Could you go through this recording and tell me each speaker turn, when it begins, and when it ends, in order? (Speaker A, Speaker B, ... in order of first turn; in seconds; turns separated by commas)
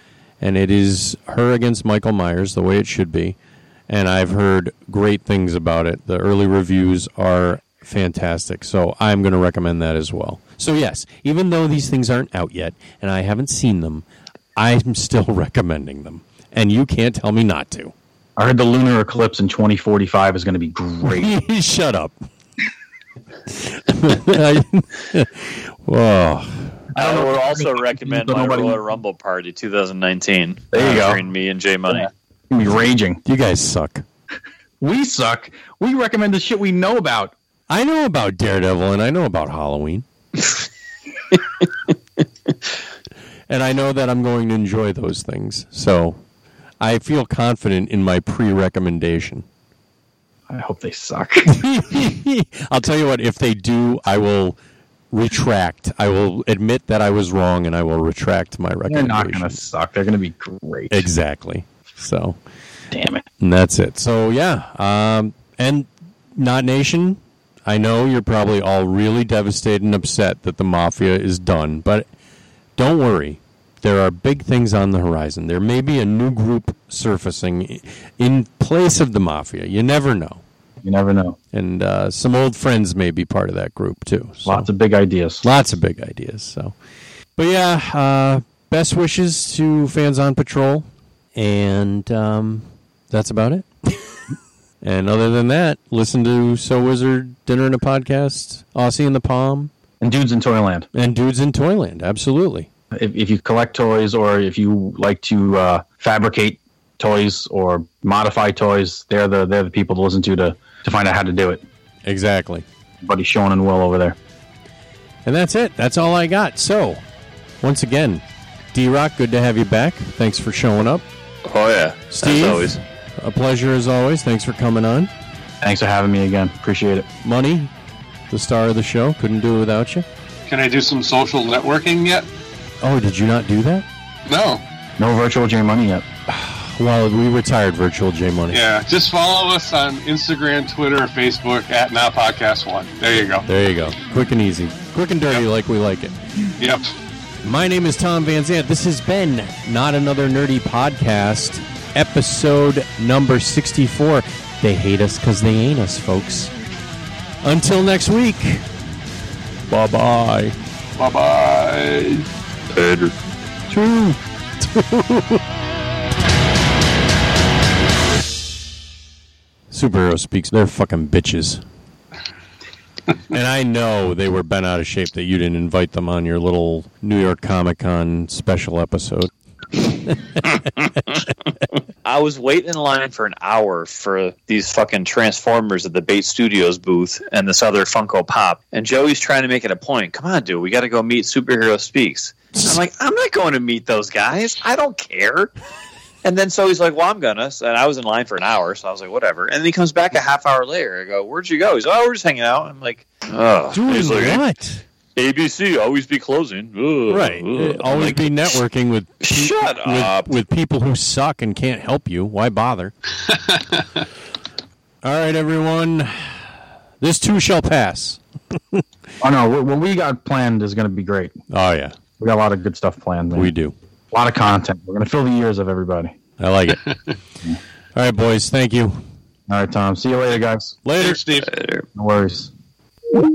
Speaker A: 0.4-3.4, Speaker A: 3.9-14.1, Speaker A: 14.6-17.9, Speaker B: 18.4-21.3, Speaker A: 21.0-22.2, Speaker A: 23.6-26.8, Speaker B: 26.9-28.8, Speaker C: 26.9-32.1, Speaker B: 30.7-31.2, Speaker B: 31.9-33.2, Speaker A: 33.2-34.0, Speaker B: 34.8-37.3, Speaker A: 37.7-40.0, Speaker A: 43.5-46.2, Speaker A: 46.8-49.5, Speaker B: 50.5-51.6, Speaker A: 51.5-54.6, Speaker A: 55.1-59.6, Speaker B: 58.9-61.1, Speaker A: 60.9-62.4, Speaker B: 62.9-63.2, Speaker A: 63.4-72.1, Speaker A: 72.8-80.4, Speaker B: 80.8-81.4, Speaker A: 81.5-84.7, Speaker B: 84.5-85.4, Speaker A: 85.4-86.8, Speaker A: 87.4-94.0, Speaker A: 94.8-99.7, Speaker B: 100.0-100.9, Speaker A: 100.9-102.7, Speaker B: 102.9-111.6, Speaker A: 112.0-112.7, Speaker B: 113.0-114.2, Speaker A: 115.2-117.0, Speaker A: 117.6-118.2, Speaker A: 118.7-121.0, Speaker C: 121.5-122.8, Speaker A: 122.1-125.1, Speaker B: 125.6-127.1, Speaker A: 127.2-127.7, Speaker A: 128.3-130.1, Speaker D: 130.5-132.3, Speaker A: 132.8-133.8, Speaker D: 134.3-134.6, Speaker B: 135.0-136.1, Speaker A: 136.3-138.6, Speaker D: 138.5-143.5, Speaker A: 143.5-146.2, Speaker D: 146.6-146.8, Speaker A: 147.4-156.5, Speaker A: 157.4-158.6, Speaker A: 159.7-160.6, Speaker D: 161.0-162.3, Speaker C: 162.7-163.1, Speaker A: 163.7-165.4, Speaker A: 169.7-171.6, Speaker A: 173.3-179.3, Speaker A: 180.1-181.0, Speaker C: 180.8-181.2, Speaker C: 182.1-195.5, Speaker C: 196.2-204.4, Speaker A: 203.7-204.8, Speaker C: 205.2-208.5, Speaker A: 207.1-212.9, Speaker C: 209.2-210.3, Speaker A: 215.0-216.4, Speaker A: 217.0-218.8, Speaker B: 219.2-221.4, Speaker A: 221.5-222.0, Speaker B: 222.2-223.5, Speaker A: 223.3-223.8, Speaker B: 224.1-226.2, Speaker A: 226.4-226.8, Speaker A: 227.9-229.0, Speaker B: 229.5-230.8, Speaker A: 230.8-231.2, Speaker D: 231.0-231.5, Speaker C: 231.5-231.8, Speaker B: 231.9-232.5